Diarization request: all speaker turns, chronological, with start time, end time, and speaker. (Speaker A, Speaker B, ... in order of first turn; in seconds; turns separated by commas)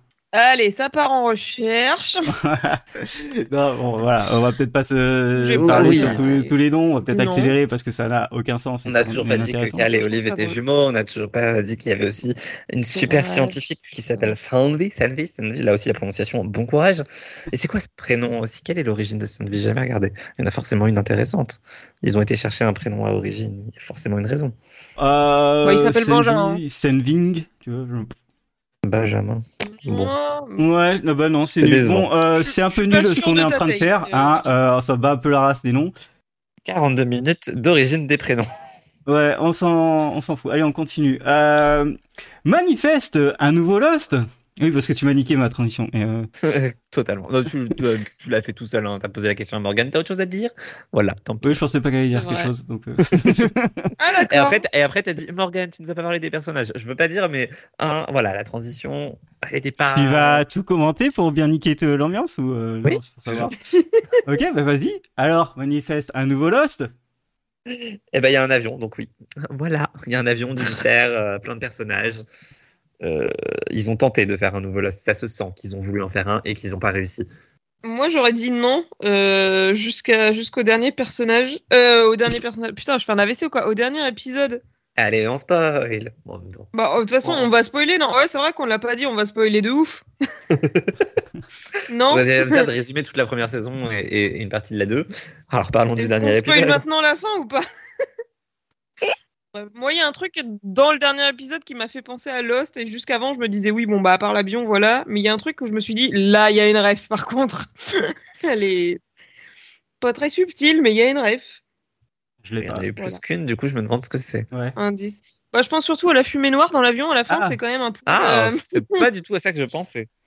Speaker A: 0.3-2.3, Speaker B: 2.3-9.9, Speaker A: 5.3-6.5, Speaker C: 5.6-6.2, Speaker A: 7.1-7.5, Speaker C: 8.8-24.6, Speaker A: 9.9-10.6, Speaker A: 12.9-13.6, Speaker B: 25.0-28.1, Speaker A: 25.6-26.6, Speaker C: 28.8-30.1, Speaker A: 29.7-30.6, Speaker B: 30.6-35.9, Speaker C: 31.6-32.1, Speaker A: 32.5-34.5, Speaker C: 36.6-38.5, Speaker B: 39.0-46.3, Speaker C: 46.4-51.6, Speaker B: 51.4-53.9, Speaker A: 52.0-52.5, Speaker A: 54.0-54.6, Speaker C: 54.2-60.4, Speaker B: 59.9-63.5, Speaker C: 62.8-63.5, Speaker B: 64.2-66.9, Speaker C: 67.7-72.2, Speaker C: 73.0-77.3, Speaker A: 77.8-84.6, Speaker C: 85.0-86.7, Speaker A: 86.7-90.0, Speaker C: 87.2-87.5, Speaker C: 90.5-91.1, Speaker A: 91.9-92.7, Speaker C: 92.1-96.8, Speaker A: 96.0-97.6, Speaker A: 99.5-109.0, Speaker A: 110.0-111.6, Speaker B: 112.4-112.9, Speaker C: 112.6-114.5, Speaker A: 114.8-119.0, Speaker B: 117.3-117.6, Speaker C: 118.1-120.1